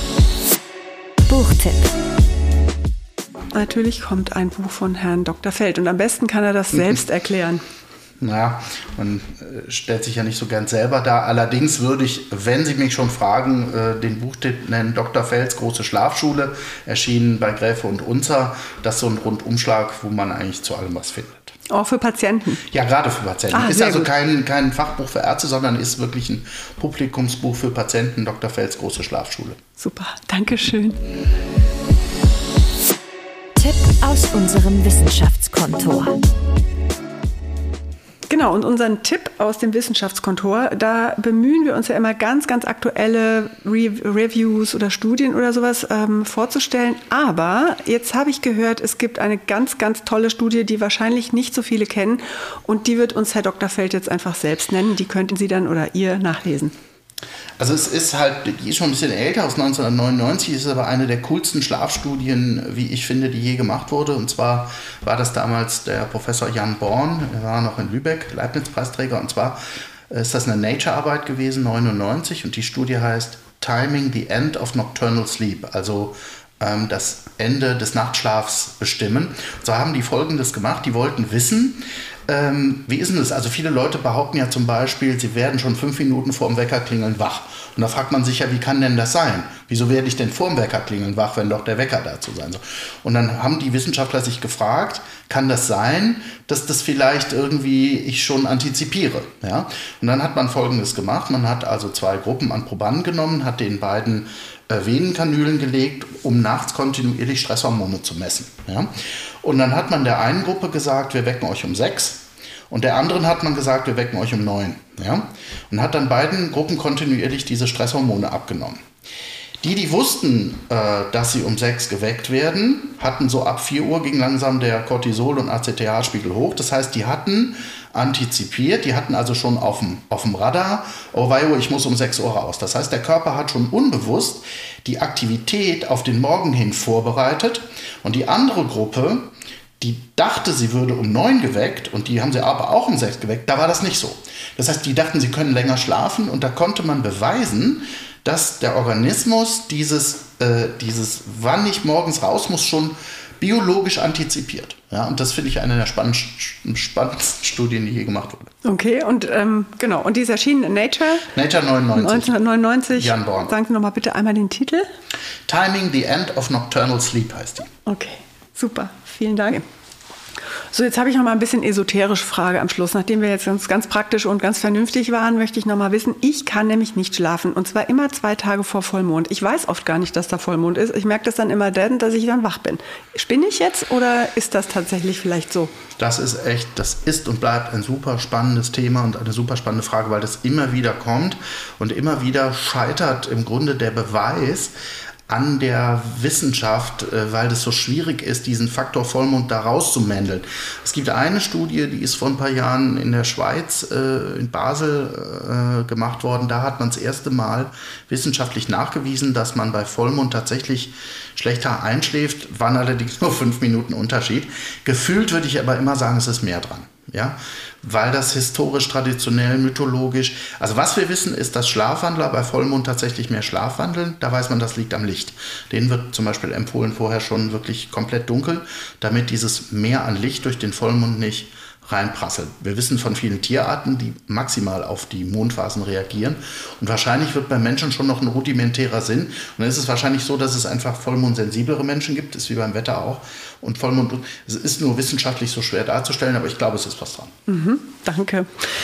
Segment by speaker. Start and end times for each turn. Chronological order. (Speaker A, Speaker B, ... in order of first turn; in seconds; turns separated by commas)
Speaker A: 1.3-1.9, Speaker B: 3.5-7.6, Speaker C: 8.2-21.6, Speaker B: 21.7-22.6, Speaker C: 22.7-29.6, Speaker B: 23.5-24.1, Speaker B: 29.8-31.0, Speaker A: 33.6-36.2, Speaker B: 38.3-56.7, Speaker C: 57.6-69.6, Speaker C: 70.1-118.8, Speaker C: 119.6-158.5, Speaker B: 158.6-161.3, Speaker C: 161.3-162.4, Speaker B: 161.9-164.9, Speaker C: 162.9-163.5, Speaker C: 165.5-167.7, Speaker B: 167.9-169.7, Speaker B: 170.7-185.7, Speaker C: 186.0-194.7, Speaker C: 195.3-247.3, Speaker B: 247.5-248.7